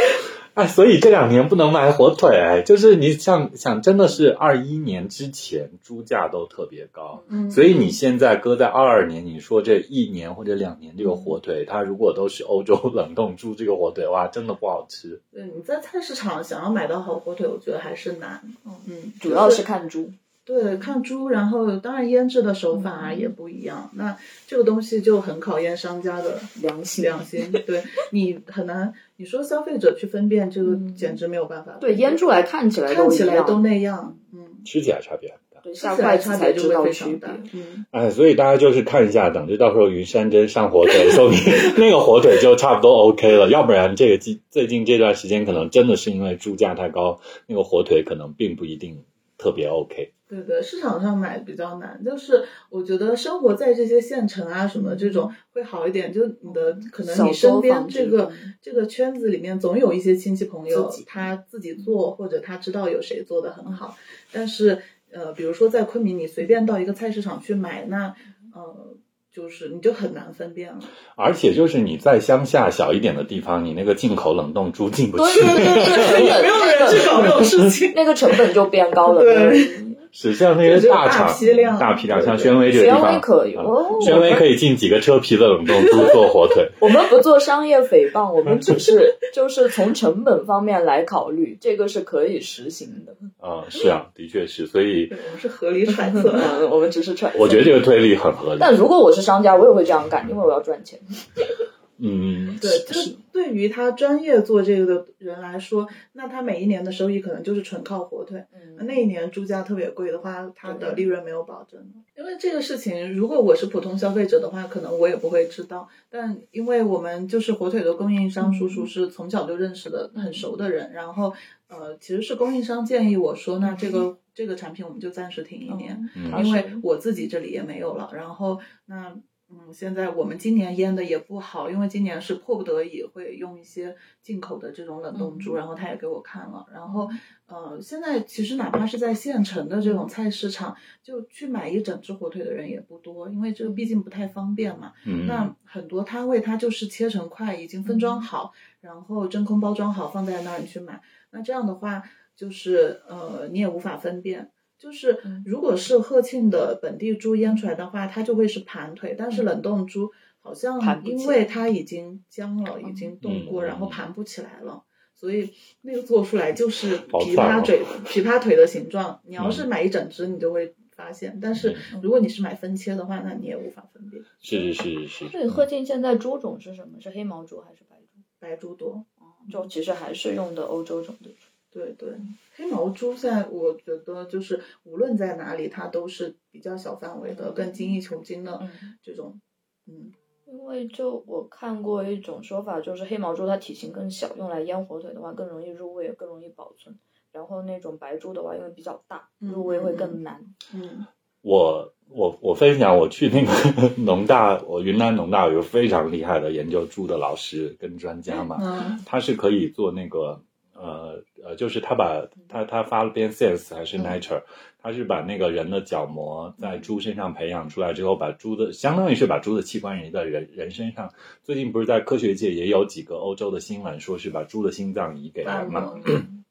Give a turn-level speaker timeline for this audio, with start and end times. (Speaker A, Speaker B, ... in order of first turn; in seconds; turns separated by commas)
Speaker A: 0.5-15.2, Speaker B: 7.1-7.4, Speaker C: 7.3-8.0, Speaker C: 15.3-19.6, Speaker B: 18.6-20.9, Speaker C: 20.4-32.3, Speaker B: 22.7-23.3, Speaker B: 26.6-27.6, Speaker B: 30.6-31.2, Speaker B: 31.8-33.6, Speaker C: 32.9-34.7, Speaker A: 34.6-35.6, Speaker B: 35.6-37.5, Speaker C: 35.8-37.9, Speaker A: 37.9-50.1, Speaker C: 50.3-70.9, Speaker B: 54.7-55.3, Speaker B: 56.4-58.5, Speaker B: 60.7-62.0, Speaker A: 71.1-76.4, Speaker B: 75.1-77.3, Speaker C: 75.3-78.3, Speaker A: 77.1-77.7, Speaker B: 77.9-80.0, Speaker C: 79.0-79.8, Speaker A: 80.1-86.7, Speaker C: 80.6-82.6, Speaker B: 81.3-81.8, Speaker B: 82.7-84.5, Speaker C: 85.7-86.2, Speaker B: 86.8-93.2, Speaker A: 93.4-95.2, Speaker C: 95.1-96.6, Speaker B: 96.0-97.8, Speaker A: 97.3-98.7, Speaker B: 98.6-101.0, Speaker A: 102.0-103.1, Speaker C: 102.6-174.4, Speaker B: 108.5-109.0, Speaker B: 110.6-111.0, Speaker B: 118.4-118.9, Speaker B: 120.1-120.5, Speaker B: 123.6-124.0, Speaker B: 125.7-126.8, Speaker A: 126.2-126.4, Speaker B: 135.1-135.6, Speaker B: 136.8-137.2, Speaker B: 139.8-140.1, Speaker B: 143.6-143.9, Speaker A: 145.0-145.5, Speaker B: 147.8-148.2, Speaker B: 160.8-161.4, Speaker B: 162.8-163.1, Speaker A: 163.2-164.0, Speaker A: 167.1-167.7, Speaker A: 169.4-169.7, Speaker A: 171.5-171.8, Speaker A: 174.4-175.7, Speaker B: 175.2-178.2, Speaker C: 178.4-179.7, Speaker B: 179.2-181.5, Speaker C: 181.7-190.1, Speaker B: 187.3-187.9, Speaker B: 188.6-188.9, Speaker B: 190.4-200.5, Speaker C: 199.4-200.2, Speaker C: 200.7-201.1, Speaker A: 201.4-226.2, Speaker C: 208.5-209.0, Speaker B: 216.6-216.9, Speaker C: 225.4-226.3